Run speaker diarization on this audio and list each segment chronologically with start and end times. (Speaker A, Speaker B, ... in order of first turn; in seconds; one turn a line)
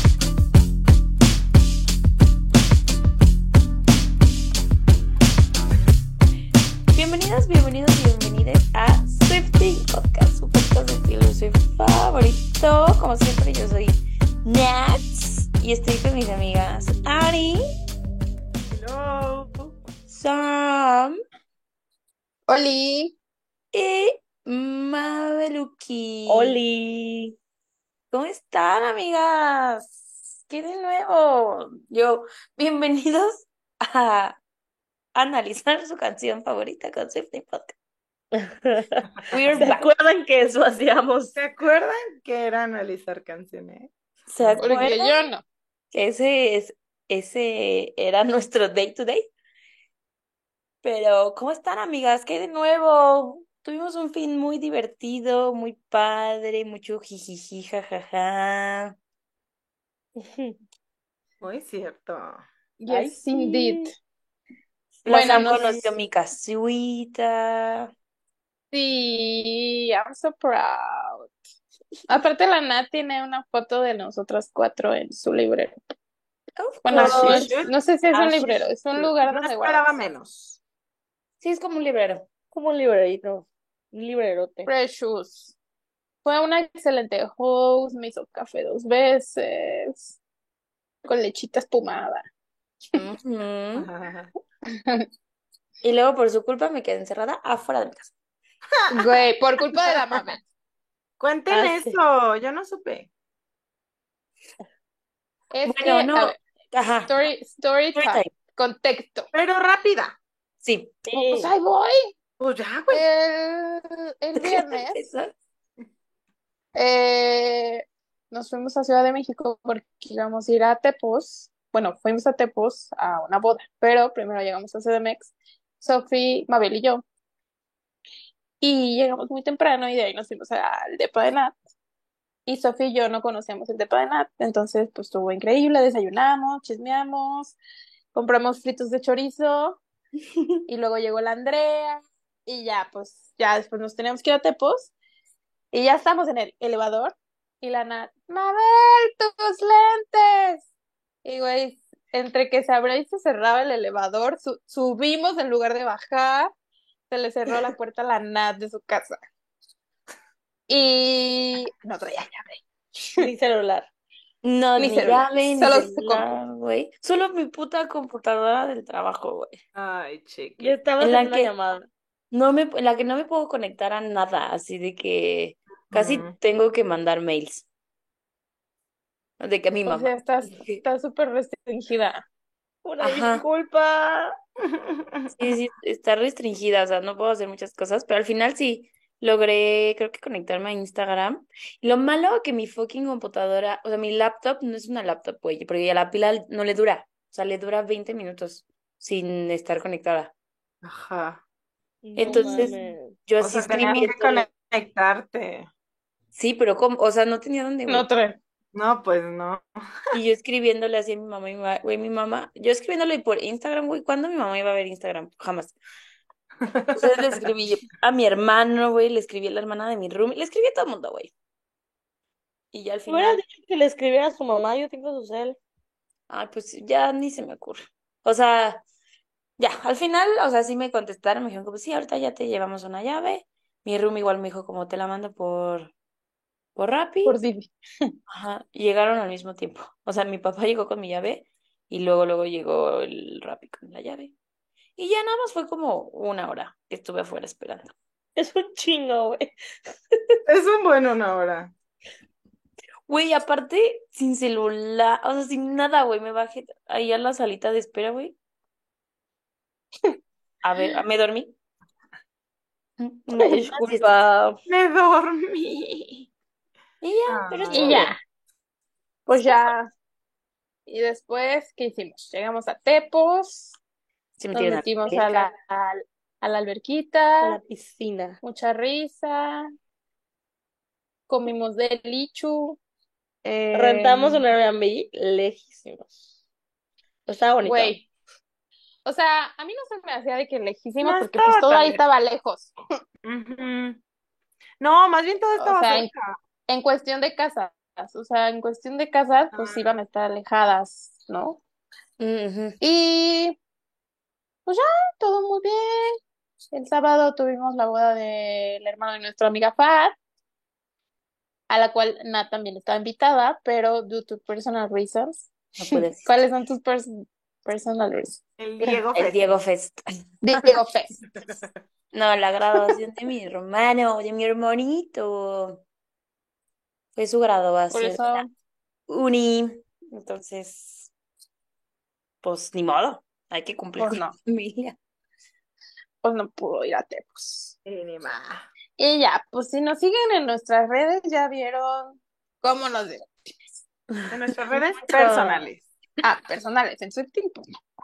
Speaker A: 6.9-17.6
Speaker B: 18.7-19.7
Speaker A: 20.1-21.1
Speaker C: 22.5-23.1
Speaker A: 23.7-26.6
Speaker D: 26.3-27.4
Speaker A: 28.1-34.4
Speaker A: 35.1-37.7
Speaker D: 38.3-41.4
Speaker A: 39.3-39.9
Speaker B: 41.4-44.8
Speaker A: 44.3-45.2
Speaker C: 44.6-45.4
Speaker A: 45.9-49.3
Speaker A: 50.8-58.9
Speaker D: 60.1-60.5
Speaker B: 61.4-62.4
Speaker C: 62.8-63.9
Speaker D: 62.9-63.9
Speaker A: 65.0-67.9
Speaker C: 65.0-65.9
Speaker C: 68.7-71.3
Speaker C: 72.1-75.7
Speaker A: 76.5-77.6
Speaker C: 76.8-80.0
Speaker B: 76.9-80.6
Speaker A: 81.4-82.3
Speaker D: 82.5-84.7
Speaker C: 84.7-85.5
Speaker C: 86.2-90.2
Speaker C: 91.0-92.2
Speaker A: 92.9-93.9
Speaker B: 93.8-94.3
Speaker C: 94.7-95.0
Speaker A: 95.8-98.1
Speaker B: 98.8-99.1
Speaker C: 98.9-100.4
Speaker B: 101.2-103.1
Speaker D: 101.5-102.0
Speaker C: 105.5-106.4
Speaker A: 105.7-107.1
Speaker C: 107.1-109.3
Speaker A: 107.9-108.3
Speaker B: 109.3-110.2
Speaker A: 110.6-111.0
Speaker D: 111.0-111.5
Speaker C: 111.1-112.1
Speaker B: 112.4-113.0
Speaker C: 112.9-115.0
Speaker A: 114.3-115.3
Speaker C: 116.7-127.0
Speaker C: 128.6-131.6
Speaker C: 132.4-137.6
Speaker C: 138.1-139.8
Speaker C: 140.7-144.9
Speaker C: 145.7-150.7
Speaker C: 151.2-156.5
Speaker C: 157.1-159.2
Speaker C: 160.7-161.7
Speaker B: 161.8-162.6
Speaker D: 163.2-163.9
Speaker A: 164.4-169.6
Speaker C: 164.8-166.2
Speaker B: 169.7-170.8
Speaker D: 170.6-171.9
Speaker A: 171.0-171.5
Speaker A: 172.3-177.7
Speaker B: 175.9-176.3
Speaker A: 179.4-180.7
Speaker C: 179.8-182.2
Speaker D: 182.8-184.3
Speaker A: 183.0-183.4
Speaker B: 184.7-185.3
Speaker A: 185.3-200.3
Speaker B: 200.8-201.4
Speaker D: 202.0-203.1
Speaker A: 202.2-204.5
Speaker C: 202.2-202.9
Speaker B: 203.4-205.7
Speaker A: 206.3-208.1
Speaker C: 207.9-208.4
Speaker B: 208.7-209.6
Speaker A: 210.1-215.7
Speaker B: 216.6-217.5
Speaker A: 216.9-221.3
Speaker A: 222.7-223.4
Speaker D: 223.1-225.6
Speaker A: 226.3-228.8
Speaker A: 229.6-235.9
Speaker A: 236.8-237.4
Speaker C: 237.2-237.7
Speaker A: 238.3-244.3
Speaker A: 245.0-247.9
Speaker D: 248.3-249.5
Speaker B: 250.5-251.7
Speaker A: 253.1-258.4
Speaker A: 260.6-261.5
Speaker A: 263.0-264.1
Speaker D: 263.3-264.6
Speaker B: 264.7-266.3
Speaker A: 267.0-268.1
Speaker B: 267.3-268.1
Speaker C: 267.7-268.2
Speaker C: 269.3-269.9
Speaker C: 270.9-273.8
Speaker A: 274.4-275.5
Speaker C: 274.5-277.6
Speaker D: 277.4-278.4
Speaker C: 278.4-279.7
Speaker C: 281.3-282.8
Speaker B: 283.4-284.3
Speaker D: 283.7-286.1
Speaker D: 287.3-288.0
Speaker C: 287.6-288.1
Speaker C: 289.0-292.7
Speaker B: 291.0-292.0
Speaker B: 293.2-294.0
Speaker B: 294.8-296.4
Speaker C: 295.6-296.1
Speaker C: 296.7-301.6
Speaker B: 299.5-299.9
Speaker A: 302.2-302.8
Speaker C: 302.8-303.6
Speaker C: 304.6-306.2
Speaker C: 306.7-310.1
Speaker C: 311.7-317.1
Speaker A: 315.8-316.3
Speaker C: 317.6-319.0
Speaker B: 318.6-319.5
Speaker A: 319.1-320.0
Speaker C: 320.4-321.1
Speaker A: 322.1-325.8
Speaker A: 327.1-328.4
Speaker C: 327.9-328.5
Speaker A: 329.1-331.1
Speaker A: 332.4-335.0
Speaker C: 334.0-334.3
Speaker C: 336.2-337.8
Speaker B: 337.8-338.7
Speaker C: 339.0-343.8
Speaker B: 344.3-345.8
Speaker D: 345.1-345.6
Speaker C: 346.2-347.7